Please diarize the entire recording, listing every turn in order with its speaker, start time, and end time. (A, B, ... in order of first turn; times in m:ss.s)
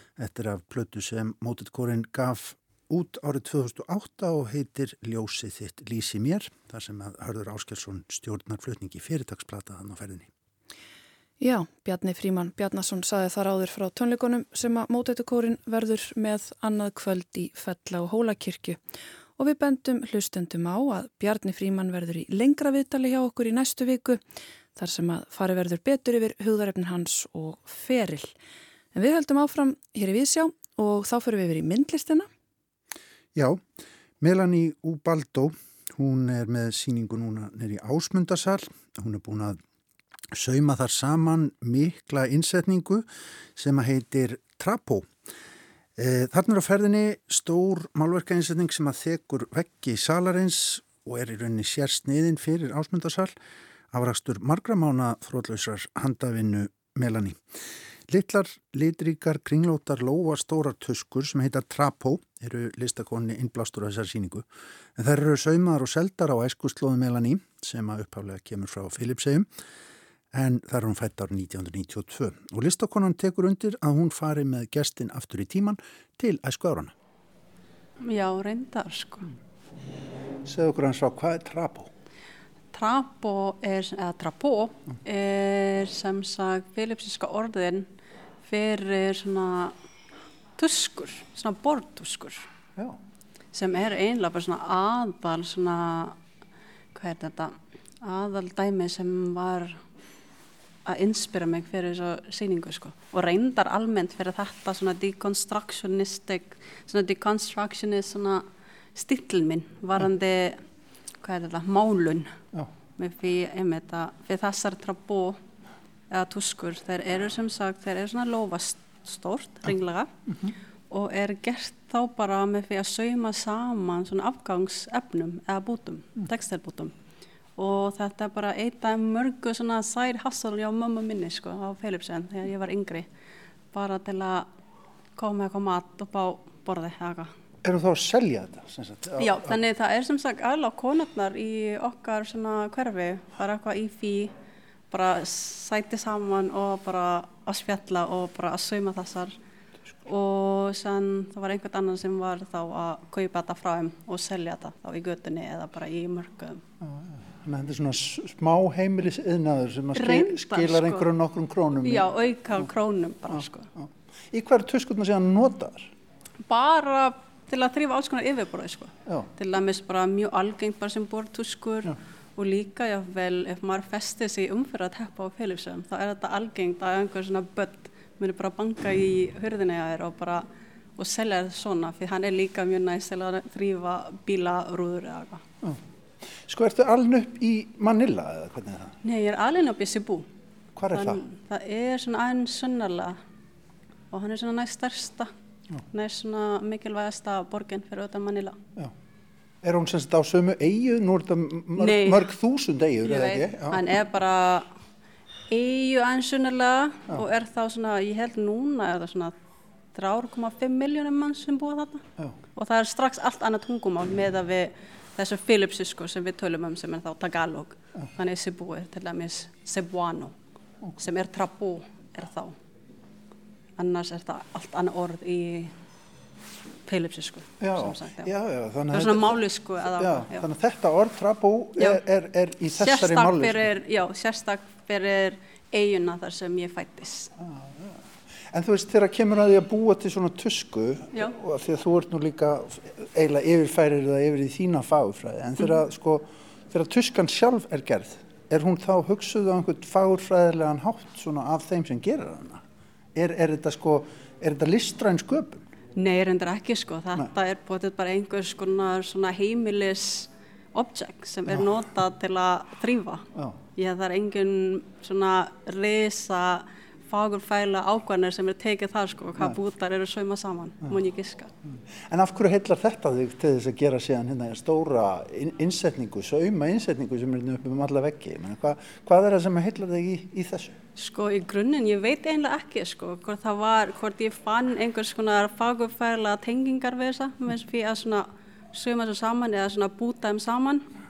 0:00.2-0:10.3 A
0:11.4-0:18.8 B
0:19.4-0:24.2 B
0:24.8-0:28.3 B
0:28.9-0:32.3 B
0:33.4-0:33.6 A
0:34.2-0:39.6 A
0:40.3-0:45.1 A
0:46.0-0:53.3 A
0:53.9-0:57.4 A
0:58.1-1:09.5 A
1:10.3-1:16.9 A
1:18.0-1:19.3 C
1:20.4-1:21.9 A
1:22.7-1:27.9 C
1:28.4-1:29.8 C
1:30.6-1:32.5 C
1:33.5-1:36.2 C
1:37.0-1:39.8 C
1:40.9-1:50.6 C
1:51.2-1:52.4 C
1:53.0-1:55.4 C
1:56.1-2:00.1 C
2:00.9-2:06.9 C
2:07.6-2:13.1 C
2:13.7-2:14.5 C
2:15.2-2:17.3 C
2:17.6-2:19.6 A
2:19.2-2:24.3 C
2:24.9-2:29.4 C
2:30.0-2:36.6 C
2:36.8-2:42.1 A
2:39.9-2:41.1 C
2:41.8-2:43.7 C
2:43.3-2:45.9 A
2:46.5-3:05.4 C
3:06.4-3:09.0 A
3:09.0-3:10.3 C
3:10.8-3:11.2 A
3:10.9-3:13.2 C
3:14.1-3:15.3 C
3:15.9-3:18.6 C
3:19.6-3:23.8 A
3:21.8-3:22.3 C
3:23.0-3:24.7 C
3:25.5-3:29.3 C
3:29.9-3:40.4 C
3:41.0-3:42.6 C
3:43.8-3:45.7 C
3:46.9-3:48.3 C
3:47.6-3:49.4 A
3:48.9-3:50.5 C
3:50.0-3:53.7 A
3:52.7-3:57.3 C
3:57.4-4:12.6 A
4:13.2-4:15.7 A
4:16.0-4:31.5 C
4:31.6-4:40.8 A
4:41.0-4:50.9 C